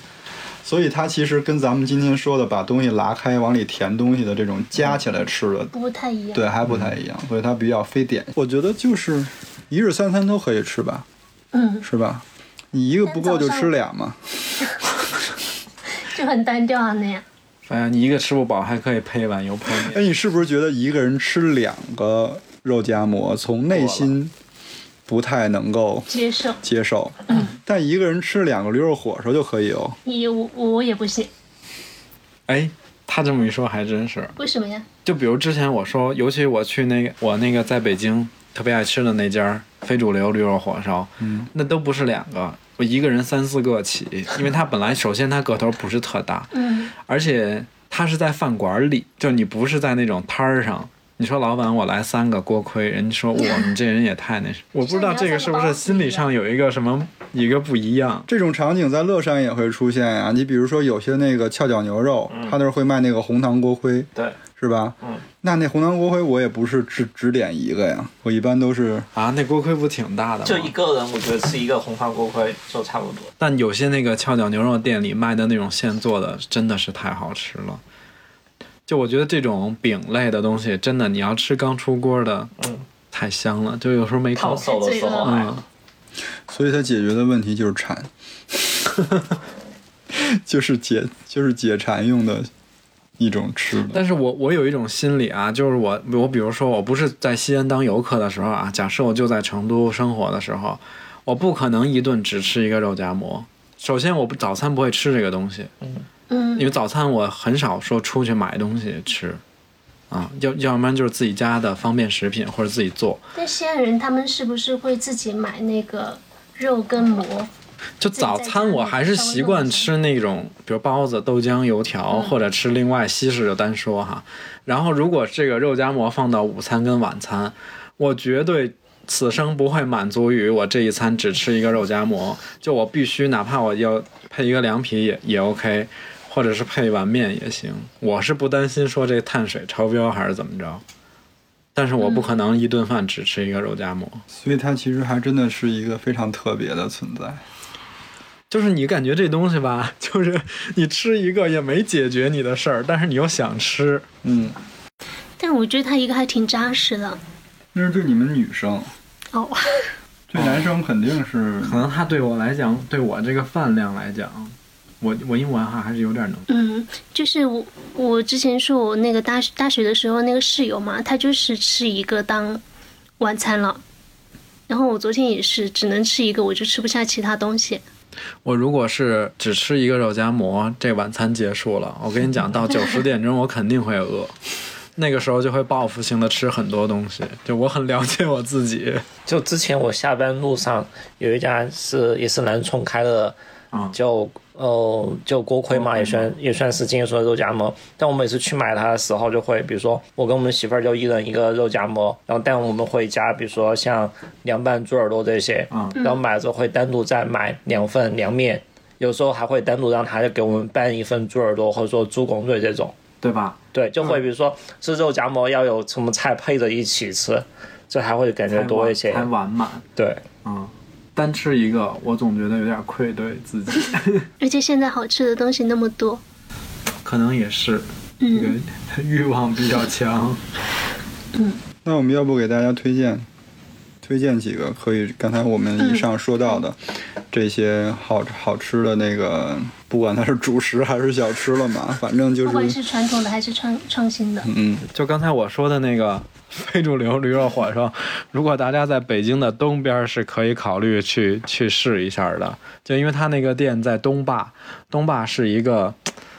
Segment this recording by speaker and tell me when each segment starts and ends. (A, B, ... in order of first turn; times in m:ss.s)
0:00.6-0:05.7 A
0:05.7-0:06.4 B
0:06.3-0:11.0 A
0:11.5-0:11.8 B
0:11.8-0:14.3 A
0:13.0-0:13.7 B
0:16.0-0:17.2 B
0:17.6-0:20.0 C
0:19.7-0:24.3 A
0:23.7-0:24.1 D
0:25.1-0:26.1 A
0:26.1-0:26.6 B
0:26.6-0:30.0 A
0:30.0-0:31.3 B
0:32.5-0:34.3 C
0:34.4-0:34.8 B
0:35.0-0:58.3 C
0:41.2-0:41.5 A
0:46.5-0:46.9 B
0:54.8-0:56.3 B
0:58.3-1:09.1 A
1:02.3-1:02.6 D
1:09.1-1:10.7 C
1:10.4-1:13.3 D
1:13.4-1:17.8 C
1:18.9-1:22.5 C
1:22.6-1:22.8 D
1:23.1-1:24.7 C
1:24.4-1:25.5 D
1:24.4-1:25.5 B
1:25.2-1:25.6 C
1:26.5-1:28.1 A
1:30.1-1:32.5 A
1:33.2-1:34.0 A
1:33.9-1:45.7 C
1:46.3-1:46.7 B
1:46.6-1:49.4 C
1:50.1-1:53.2 C
1:53.3-1:57.5 B
1:58.0-2:20.8 C
1:58.1-1:59.9 B
2:21.7-2:24.2 C
2:22.0-2:22.4 B
2:24.3-2:27.4 A
2:28.5-2:34.0 C
2:34.2-2:34.5 A
2:35.4-2:37.2 B
2:37.7-2:38.9 A
2:39.3-2:39.8 B
2:40.3-2:41.8 A
2:40.4-2:40.7 C
2:41.6-2:46.5 C
2:46.5-2:52.6 B
2:53.2-2:53.8 B
2:54.7-2:57.8 B
2:58.4-3:04.3 C
3:05.0-3:09.0 C
3:09.3-3:13.4 D
3:13.7-3:14.0 C
3:13.9-3:33.0 D
3:15.7-3:16.3 C
3:25.7-3:26.0 C
3:26.0-3:26.2 B
3:33.2-3:33.6 C
3:33.7-3:39.3 D
3:38.5-3:39.8 C
3:40.0-3:40.2 D
3:40.4-3:44.3 C
3:44.4-3:46.2 B
3:47.0-3:50.4 C
3:48.2-3:48.6 B
3:51.8-3:53.3 A
3:54.0-4:02.8 A
3:55.8-3:56.6 B
4:02.4-4:04.5 B
4:04.4-4:04.8 A
4:04.9-4:16.0 C